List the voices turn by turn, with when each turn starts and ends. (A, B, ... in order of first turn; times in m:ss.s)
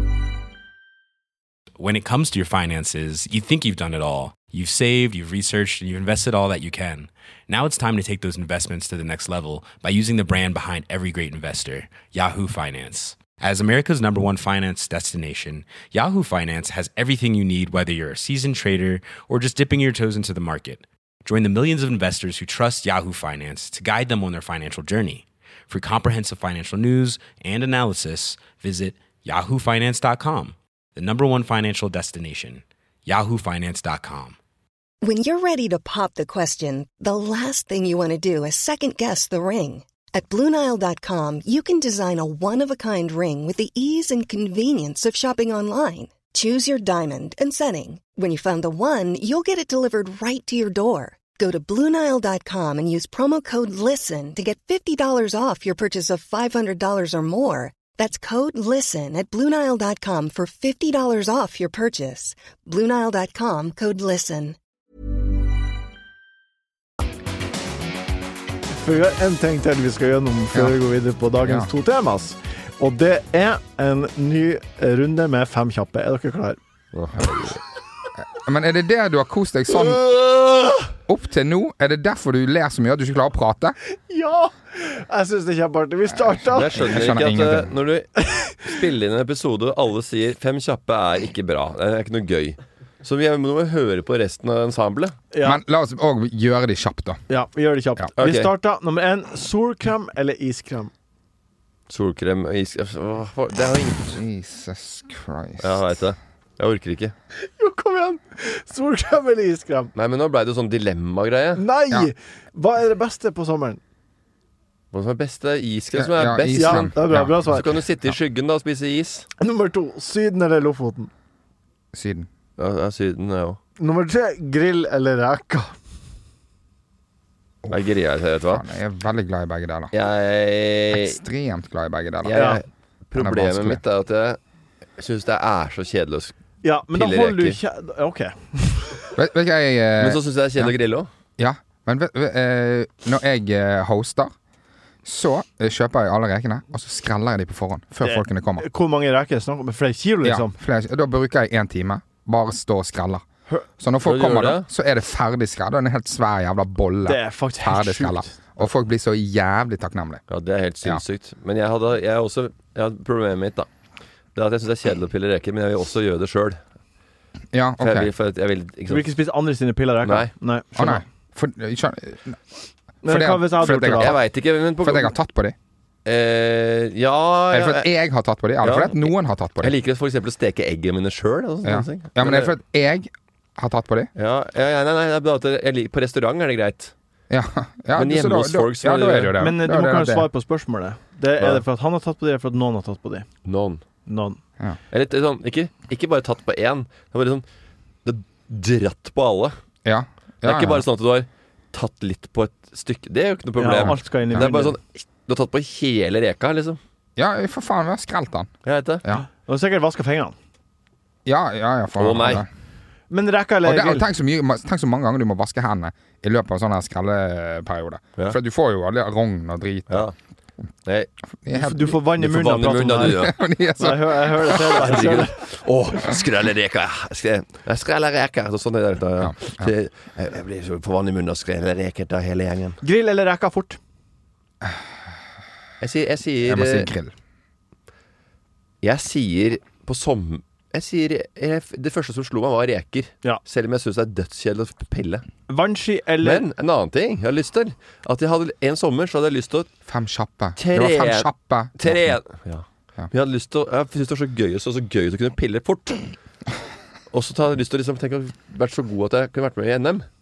0:01.8-0:34.4 A
0:35.0-1:04.6 B
1:08.7-1:16.6 C
1:10.5-1:10.8 D
1:11.4-1:11.7 D
1:16.9-1:17.6 E
1:18.3-1:20.0 D
1:19.7-1:20.9 E
1:21.1-1:23.8 D
1:24.1-1:27.0 C
1:26.2-1:27.7 D
1:26.5-1:35.2 E
1:28.2-1:28.9 C
1:35.3-1:35.6 C
1:35.4-1:37.2 D
1:37.3-1:40.9 C
1:38.2-1:38.5 E
1:41.9-1:44.1 E
1:44.1-1:45.8 D
1:45.6-1:47.1 E
1:47.4-1:49.9 C
1:50.0-1:51.6 E
1:51.6-1:53.8 C
1:54.9-1:59.2 E
1:56.0-1:57.4 D
1:56.5-1:57.7 C
1:59.4-2:01.1 C
2:01.9-2:02.3 D
2:02.6-2:03.6 E
2:03.8-2:05.7 C
2:07.7-2:08.6 E
2:08.5-2:09.9 D
2:09.9-2:11.2 E
2:10.9-2:12.5 D
2:12.2-2:14.4 E
2:12.3-2:12.6 C
2:13.2-2:13.8 D
2:15.0-2:16.3 E
2:16.6-2:19.1 C
2:16.9-2:17.6 E
2:19.2-2:20.7 D
2:20.0-2:21.1 E
2:21.4-2:24.3 D
2:25.0-2:28.6 D
2:28.0-2:30.6 C
2:30.2-2:33.2 D
2:33.8-2:40.2 D
2:34.0-2:34.6 E
2:37.0-2:38.3 C
2:40.3-2:43.7 E
2:44.4-2:46.6 E
2:47.5-2:48.1 D
2:47.8-2:49.1 E
2:48.9-2:51.0 C
2:50.0-2:50.3 E
2:50.8-2:52.4 D
2:53.0-2:54.1 C
2:53.0-2:54.2 D
2:54.0-2:55.1 E
2:54.8-2:55.6 D
2:56.0-2:57.9 E
2:57.5-2:59.8 D
2:58.6-2:59.1 E
2:59.6-3:02.5 E
3:01.6-3:04.1 D
3:04.2-3:06.9 E
3:07.3-3:10.3 D
3:07.9-3:09.3 E
3:09.4-3:13.3 C
3:13.4-3:13.8 E
3:14.1-3:14.4 C
3:14.9-3:17.4 E
3:18.0-3:19.6 E
3:19.8-3:20.9 D
3:20.4-3:26.8 E
3:23.6-3:24.8 C
3:27.2-3:29.2 D
3:28.6-3:29.0 E
3:29.2-3:30.4 C
3:31.2-3:32.5 D
3:32.0-3:32.4 E
3:33.1-3:34.1 C
3:33.6-3:40.1 D
3:39.9-3:40.1 E
3:41.4-3:42.0 D
3:41.5-3:43.2 C
3:42.1-3:43.4 E
3:43.2-3:44.3 D
3:43.8-3:45.4 C
3:44.6-3:52.8 E
3:49.2-3:49.7 D
3:52.8-3:53.8 C
3:55.8-3:56.9 E
3:56.4-3:57.1 D
3:58.8-4:05.2 E
4:05.5-4:06.4 C
4:06.2-4:09.7 E
4:09.9-4:12.2 D
4:10.6-4:16.1 E
4:17.1-4:20.1 E